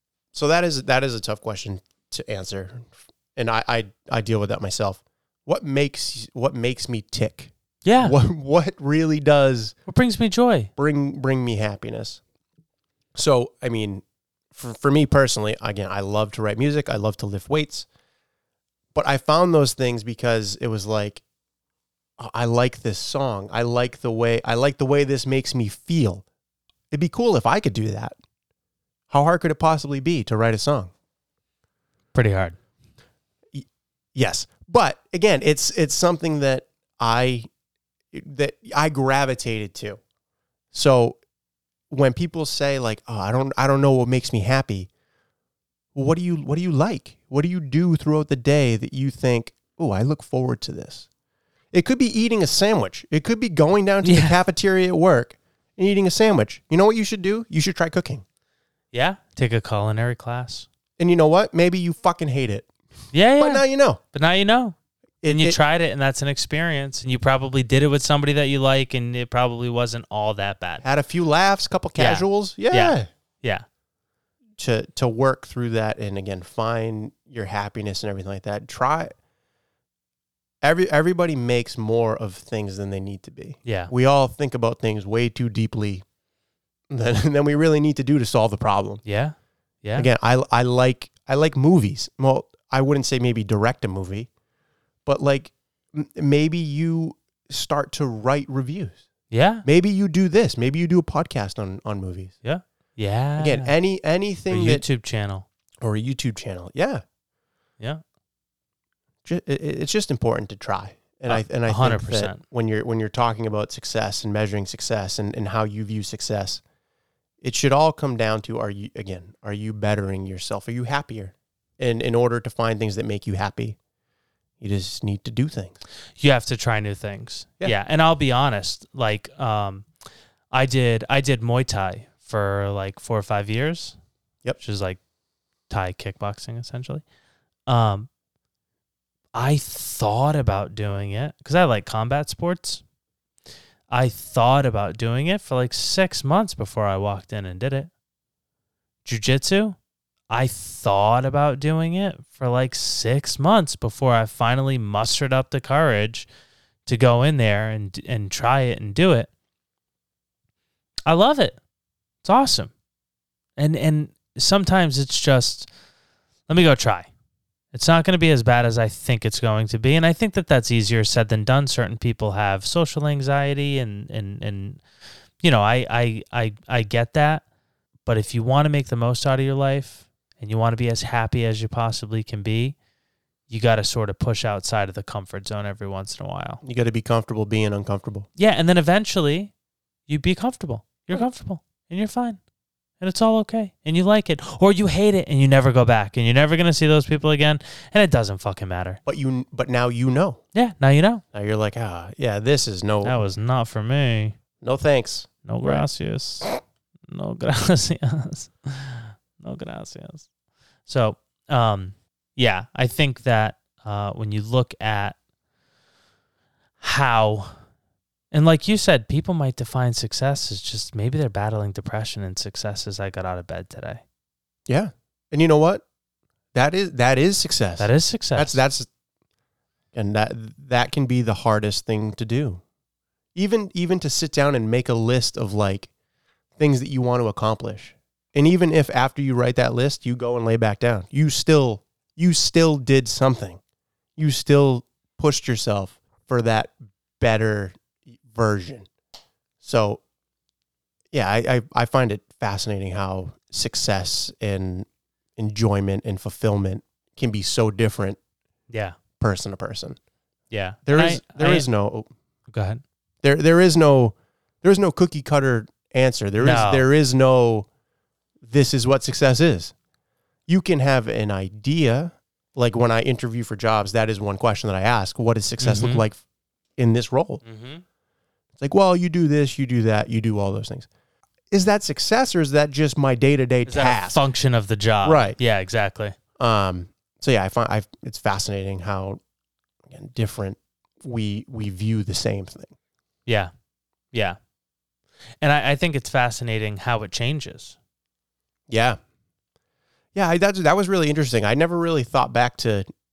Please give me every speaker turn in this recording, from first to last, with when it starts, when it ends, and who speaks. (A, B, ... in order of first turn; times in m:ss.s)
0:00.3-0:09.7 A
0:07.8-0:08.2 B
0:09.9-0:10.7 B
0:10.8-0:12.2 A
0:13.1-0:17.9 A
0:18.9-0:21.2 A
0:22.2-0:26.2 A
0:26.9-0:28.1 A
0:29.1-0:30.9 A
0:32.1-0:32.6 B
0:33.5-0:37.5 A
0:38.1-0:40.0 A
0:40.7-0:41.2 A
0:41.9-0:44.9 A
0:45.9-0:51.1 A
0:51.7-0:58.2 A
0:54.0-0:54.4 B
0:58.9-1:00.7 B
1:01.0-1:02.7 A
1:03.1-1:04.8 B
1:03.4-1:04.0 A
1:05.2-1:05.6 A
1:05.3-1:10.8 B
1:10.8-1:13.1 A
1:12.0-1:13.6 B
1:14.6-1:19.1 A
1:20.6-1:26.0 A
1:23.6-1:23.9 B
1:26.9-1:29.0 A
1:29.0-1:30.1 B
1:30.0-1:34.3 A
1:35.0-1:39.0 A
1:39.3-1:39.6 B
1:39.6-1:42.3 A
1:42.4-1:43.7 B
1:43.4-1:44.8 A
1:44.5-1:45.4 B
1:45.8-1:47.0 A
1:49.2-1:56.6 A
1:51.3-1:52.4 B
1:57.4-2:03.8 A
2:04.6-2:05.8 A
2:06.2-2:09.8 B
2:10.5-2:14.0 B
2:14.6-2:15.0 B
2:15.7-2:17.0 B
2:17.7-2:18.1 B
2:19.3-2:22.8 B
2:23.9-2:27.9 B
2:29.0-2:29.8 B
2:30.3-2:36.3 B
2:36.8-2:39.3 B
2:41.1-2:41.6 B
2:42.2-2:42.7 B
2:43.6-2:45.7 B
2:46.5-2:47.1 B
2:47.7-2:54.8 B
2:55.4-2:57.4 B
2:58.0-3:02.8 B
3:03.5-3:06.6 B
3:06.6-3:08.3 A
3:08.4-3:09.5 B
3:10.1-3:12.4 B
3:13.0-3:19.0 B
3:19.0-3:20.4 A
3:20.5-3:21.2 B
3:21.3-3:23.2 A
3:23.0-3:24.4 B
3:24.6-3:25.9 A
3:25.4-3:26.5 B
3:27.1-3:30.3 B
3:30.8-3:35.2 B
3:36.8-3:37.6 B
3:38.3-3:44.0 B
3:44.7-3:45.8 A
3:46.5-3:48.9 A
3:47.8-3:48.6 B
3:49.9-3:52.6 A
3:53.3-3:55.9 A
3:56.6-4:03.6 A
4:04.2-4:08.9 A
4:09.6-4:10.0 A
4:11.1-4:14.8 A
4:15.4-4:18.2 A
4:18.7-4:19.0 B
4:19.2-4:20.0 A
4:20.5-4:21.7 B
4:20.8-4:22.1 A
4:22.5-4:22.8 B
4:23.2-4:27.7 A
4:26.4-4:26.8 B
4:28.4-4:29.7 A
4:30.5-4:36.2 A
4:35.6-4:36.0 B
4:36.8-4:37.4 A
4:37.4-4:37.8 B
4:38.6-4:40.9 A
4:41.5-4:44.2 A
4:43.6-4:46.1 B
4:45.0-4:45.4 A
4:46.4-4:49.2 A
4:49.8-4:52.7 A
4:54.1-4:54.4 B
4:55.4-4:57.8 B
4:58.7-4:59.0 A
5:00.1-5:02.9 A